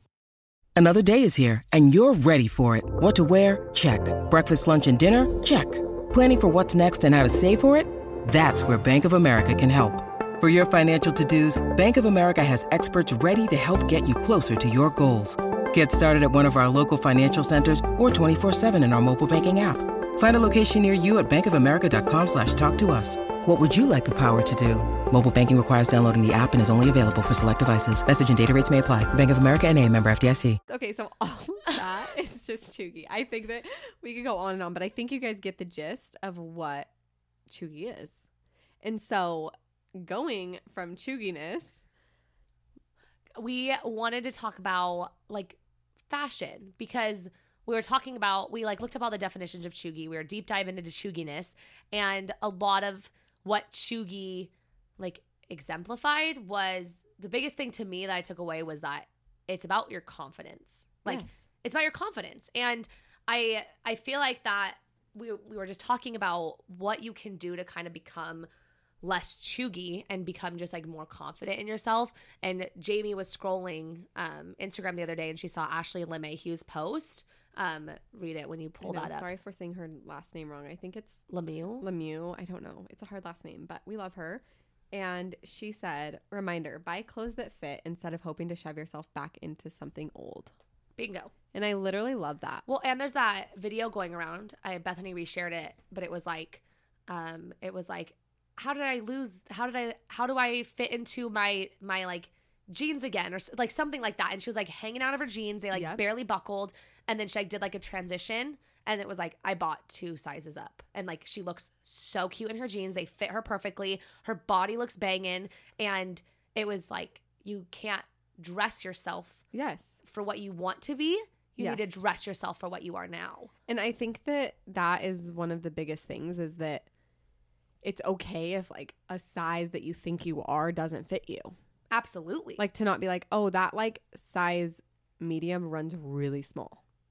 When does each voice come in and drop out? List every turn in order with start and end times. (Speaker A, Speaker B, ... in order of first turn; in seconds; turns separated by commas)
Speaker A: 0.8-30.6, Speaker B: 30.7-36.9, Speaker B: 37.5-38.3, Speaker B: 38.8-41.9, Speaker C: 43.4-45.6, Speaker C: 46.1-68.5, Speaker B: 61.1-61.5, Speaker C: 69.0-79.3, Speaker B: 78.8-81.2, Speaker C: 81.3-81.9, Speaker B: 81.8-90.5, Speaker C: 91.0-91.3, Speaker B: 91.5-92.7, Speaker C: 92.7-119.4, Speaker B: 105.7-106.0, Speaker B: 119.5-120.0, Speaker C: 120.0-123.5, Speaker B: 121.6-122.0, Speaker B: 123.7-126.9, Speaker B: 127.8-131.6, Speaker C: 131.9-132.6, Speaker B: 132.6-136.8